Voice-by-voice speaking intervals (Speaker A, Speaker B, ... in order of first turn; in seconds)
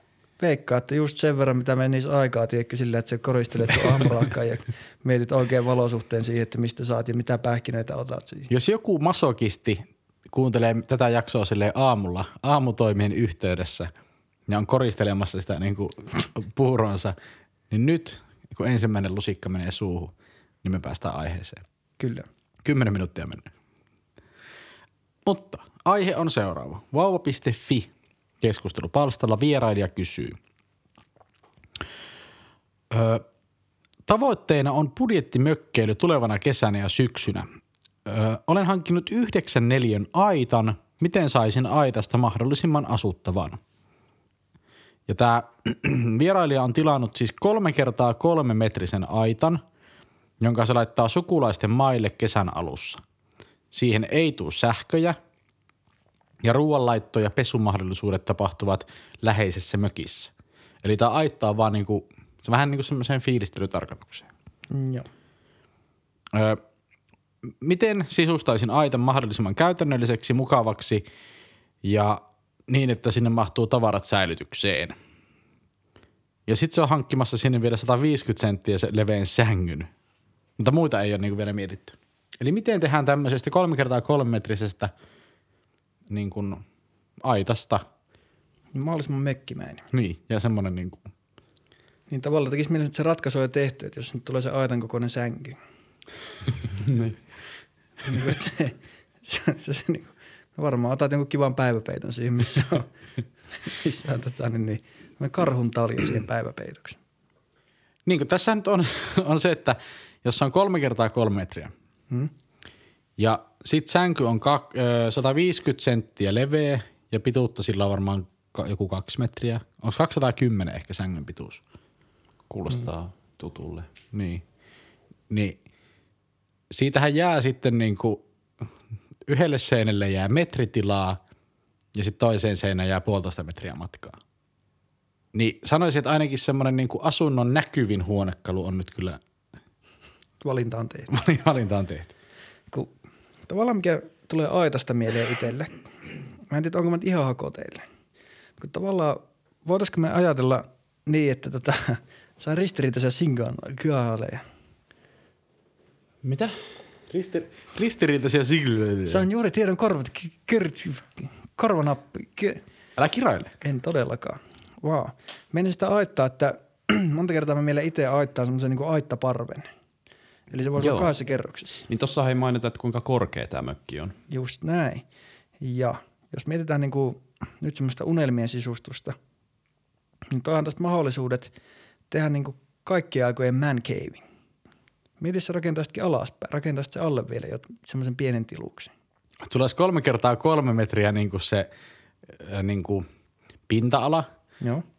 Speaker A: 0.4-8.5, 22.0-22.3, 64.7-65.1, 88.7-89.8, 92.1-95.6, 98.0-102.9, 103.6-107.0, 140.4-141.1, 143.5-145.8, 146.5-147.8, 148.6-154.4, 159.1-162.6, 163.6-169.7, 170.5-171.9, 174.3-175.0, 175.6-179.2, 180.3-181.5, 182.1-184.2, 185.2-188.9
Speaker B: 8.5-13.9, 14.5-17.1, 17.7-21.6, 22.6-23.5, 25.2-27.9, 28.4-30.4, 32.9-33.2, 34.0-37.5, 38.0-43.6, 45.1-49.6, 50.4-53.0, 53.7-55.2, 56.4-60.3, 60.8-64.3, 66.3-66.6, 67.5-71.0, 71.8-75.0, 76.5-79.9, 80.6-84.9, 86.1-86.6, 87.2-87.8, 89.9-91.1, 108.0-111.7, 113.2-121.6, 124.1-124.4, 125.3-125.6, 126.7-128.7, 129.3-131.2, 131.9-134.2, 135.3-139.2, 141.1-142.1, 157.1-159.2, 163.0-163.5, 189.4-191.7, 192.3-193.0, 193.7-194.3
Speaker C: 96.8-97.2, 122.5-123.9, 156.2-156.6, 170.8-171.1, 171.9-174.2